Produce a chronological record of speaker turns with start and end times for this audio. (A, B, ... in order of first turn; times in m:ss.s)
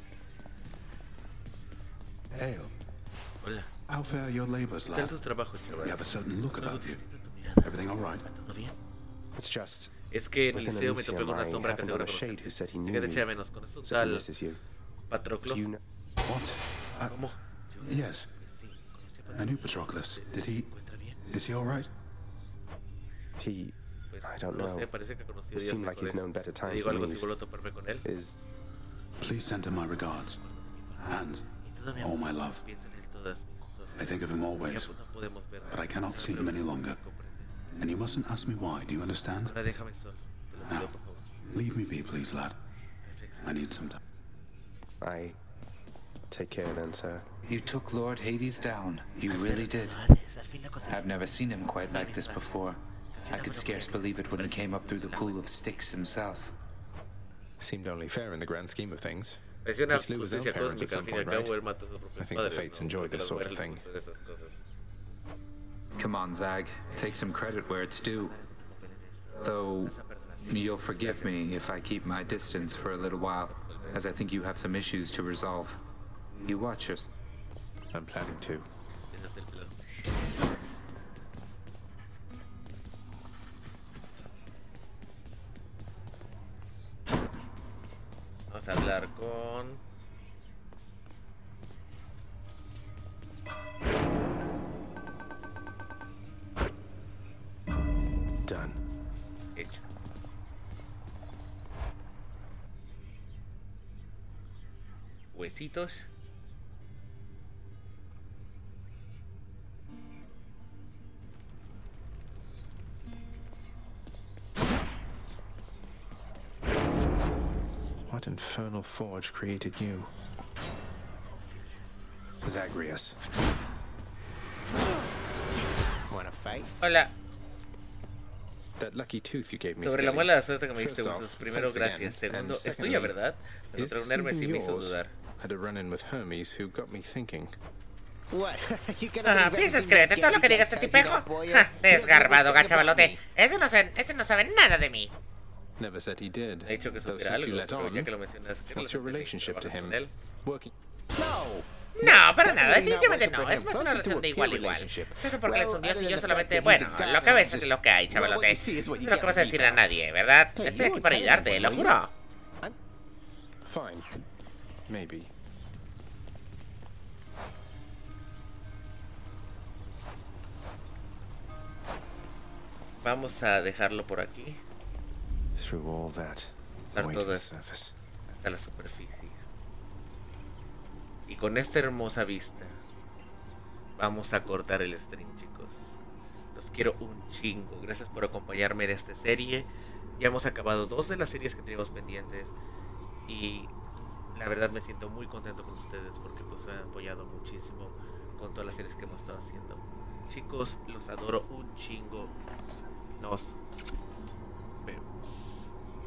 0:02.3-0:02.7 A
0:03.4-0:03.7 B
0:03.9-0:05.1 A
0:04.9-0:08.7 B
0:05.8-0:07.0 A
0:07.6-0:08.2 A
0:09.3-0:09.9 C
0:10.1-0:14.3 B
0:10.6-0:13.1 D
0:10.6-0:13.0 C
0:13.8-0:14.6 C
0:15.1-0:15.6 B
0:15.5-0:15.8 D
0:16.2-0:17.2 A
0:17.0-0:21.2 B
0:17.8-0:18.3 A
0:19.3-0:20.7 A
0:21.2-0:21.9 A
0:23.4-0:24.9 C
0:24.1-0:28.0 B
0:25.6-0:26.0 D
0:25.7-0:27.3 C
0:28.0-0:28.3 C
0:29.2-0:30.4 A
0:29.2-0:37.6 B
0:31.0-0:32.6 A
0:34.0-0:34.9 A
0:35.7-0:37.0 A
0:37.8-0:39.5 A
0:39.4-0:41.3 B
0:41.5-0:42.6 A
0:43.0-0:43.9 B
0:43.4-0:44.0 A
0:45.0-0:45.4 C
0:46.3-0:47.2 C
0:47.5-0:50.0 E
0:49.3-0:51.3 B
0:50.9-0:52.8 E
0:51.9-0:52.6 B
0:53.1-0:55.4 B
0:53.3-0:56.5 E
0:57.6-1:01.5 C
0:59.6-1:04.6 B
1:02.2-1:03.8 C
1:06.0-1:08.4 E
1:07.3-1:11.6 B
1:09.4-1:15.8 E
1:12.4-1:14.0 B
1:16.4-1:17.1 E
1:17.9-1:18.7 C
1:19.1-1:19.8 B
1:28.5-1:29.8 B
1:38.4-1:38.8 C
1:39.5-1:39.8 B
1:45.3-1:46.1 B
1:58.1-2:00.1 C
2:02.4-2:03.2 C
2:06.1-2:06.7 D
2:06.8-2:07.1 B
2:08.8-2:13.2 C
2:09.8-2:15.1 B
2:13.8-2:17.6 C
2:18.3-2:23.2 D
2:19.2-2:25.1 F
2:25.8-2:28.1 C
2:26.6-2:30.1 B
2:28.7-2:30.7 C
2:31.1-2:39.9 D
2:32.0-2:42.1 F
2:40.5-2:42.0 D
2:43.6-2:44.1 C
2:44.9-2:45.3 C
2:53.0-2:54.6 B
2:55.5-2:57.9 C
2:56.9-2:57.5 B
2:58.3-2:59.4 B
3:01.3-3:02.8 B
3:04.0-3:06.0 B
3:06.5-3:12.5 B
3:13.3-3:13.7 B
3:14.3-3:22.4 B
3:23.2-3:23.6 B
3:24.8-3:25.7 B